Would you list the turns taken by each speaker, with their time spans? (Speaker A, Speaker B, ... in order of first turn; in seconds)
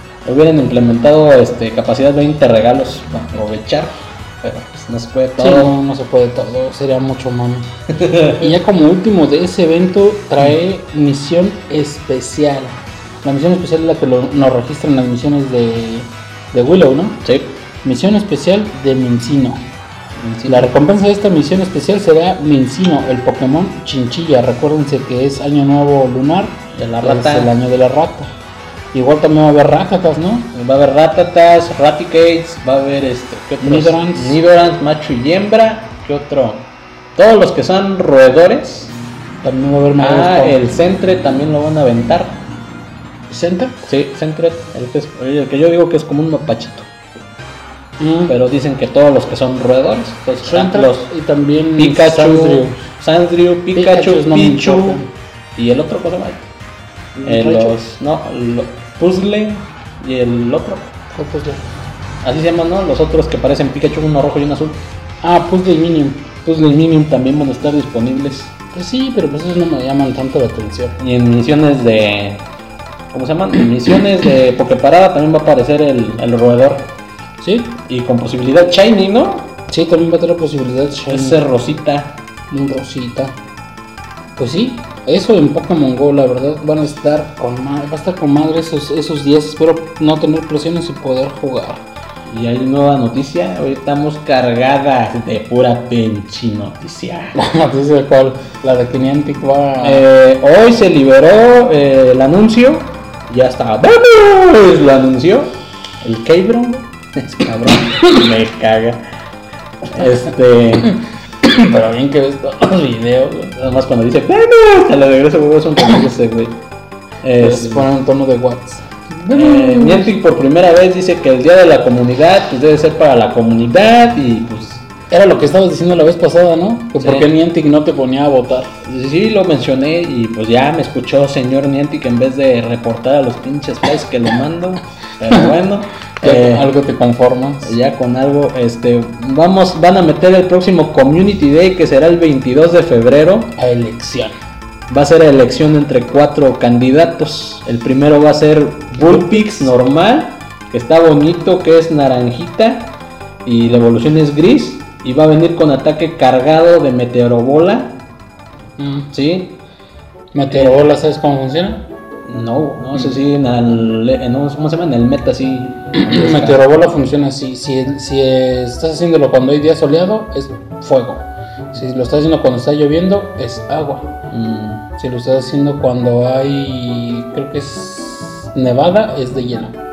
Speaker A: 0.2-5.7, 8.0-8.4, 17.2-17.6, 20.2-20.7, 26.8-27.5, 30.5-38.9, 40.0-42.4, 43.9-46.9, 48.3-51.1, 51.8-55.0, 55.6-56.5, 57.2-61.0, 62.2-64.8, 66.5-68.5, 71.0-72.5, 73.1-76.9, 77.9-79.5, 81.1-82.2, 92.3-97.4, 99.8-109.0, 109.8-111.0, 113.5-116.6, 117.2-117.9, 119.3-124.9, 127.0-127.3, 128.8-136.7, 137.6-143.5, 144.9-158.0, 159.1-159.6, 160.5-160.8, 162.3-166.7, 174.3-174.9
Speaker B: 5.4-17.2, 17.8-19.7, 20.4-28.3, 28.9-30.5, 33.6-34.4, 39.4-40.7, 43.3-43.9, 48.0-48.4, 50.4-52.8, 53.7-55.1, 57.2-57.8, 61.1-61.6, 65.2-66.3, 68.7-71.0, 77.4-77.8, 79.7-81.4, 82.5-83.4, 84.4-91.8, 97.3-100.1, 111.4-113.6, 117.4-120.2, 125.1-128.7, 136.2-137.8, 143.6-144.3, 149.0-149.7, 158.8-159.1, 160.3-161.8, 165.9-174.1, 175.0-179.8